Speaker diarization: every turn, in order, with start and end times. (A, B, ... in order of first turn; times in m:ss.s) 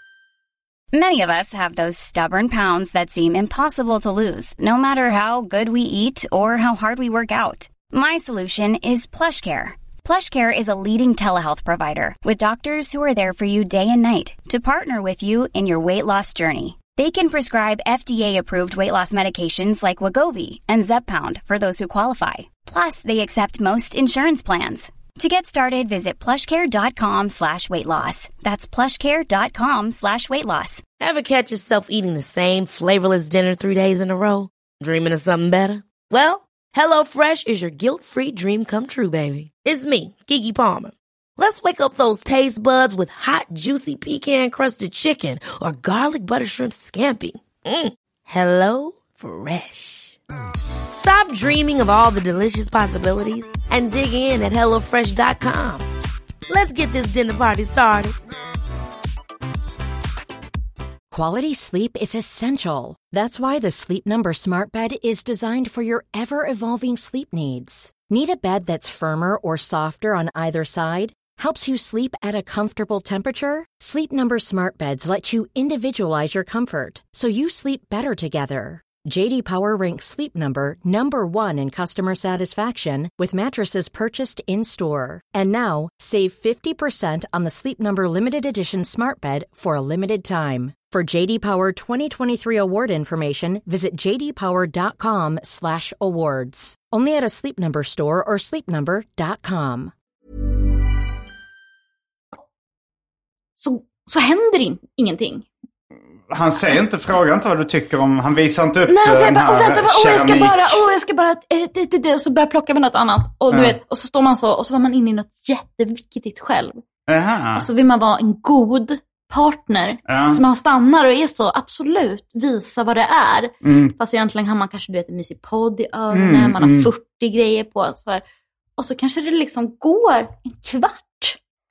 0:00.9-0:30.8 A
0:31.0-0:50.2 B
0:51.0-0:55.9 B
0:56.5-0:58.2 B
1:01.1-1:39.9 C
1:43.6-1:45.5 D
1:46.3-1:50.8 E
1:48.9-1:56.8 D
1:53.5-1:53.8 E
1:57.1-1:57.7 E
1:57.6-2:08.2 D
2:00.1-2:00.4 E
2:03.6-2:04.0 E
2:06.1-2:06.9 E
2:08.8-2:11.4 D